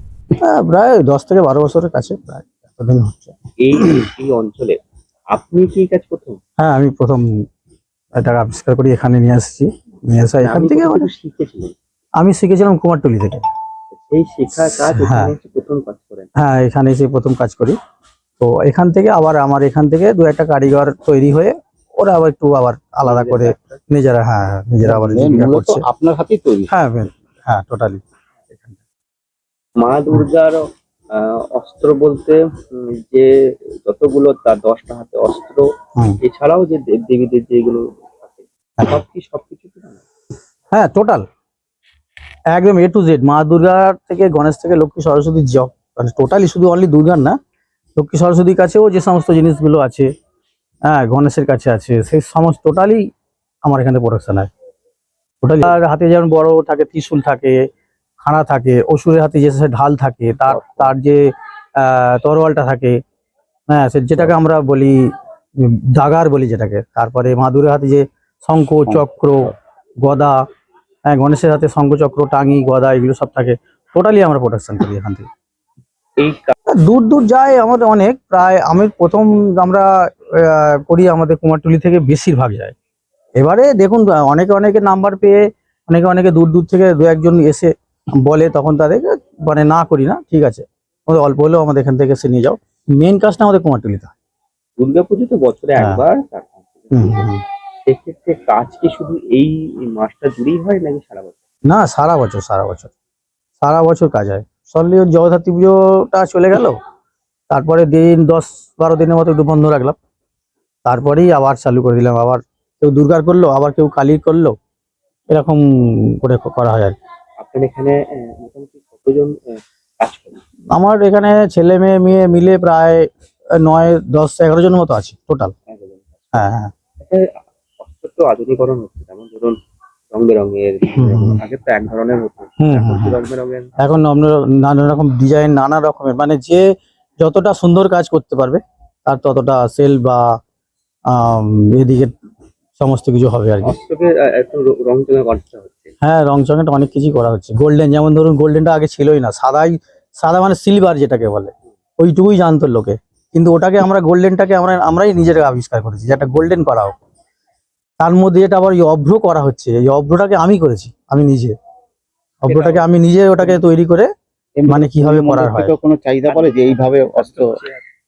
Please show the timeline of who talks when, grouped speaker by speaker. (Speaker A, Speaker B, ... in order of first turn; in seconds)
Speaker A: 0.4-4.0, 6.6-7.3, 8.2-11.1, 12.2-13.4, 14.8-15.3, 16.4-17.8, 18.4-25.8, 26.7-28.8, 40.7-41.2, 42.5-47.4, 48.0-50.1, 50.9-53.0, 53.6-54.5, 55.4-57.6, 58.2-61.2, 61.8-63.0, 63.7-65.0, 65.6-70.4, 71.1-75.3, 76.7-82.7, 83.4-94.1, 96.9-97.4, 101.7-102.9, 103.6-106.8, 107.5-110.0, 110.9-114.5, 115.3-117.0, 120.7-125.5, 126.3-126.7, 131.0-131.4, 132.6-133.1, 133.8-136.6, 137.2-140.3, 141.1-142.1, 142.8-143.8, 146.0-156.9, 158.0-161.5, 162.4-164.1, 164.7-165.7
Speaker B: 3.6-4.8, 5.3-6.4, 10.4-11.8, 14.0-16.3, 23.1-23.8, 29.8-35.7, 36.2-40.0, 76.2-76.5, 94.8-97.3, 97.9-101.4, 117.4-120.4, 125.7-129.6, 130.1-133.7, 143.6-145.9, 162.5-162.8, 166.3-167.8
Speaker C: 24.8-26.7, 164.6-167.5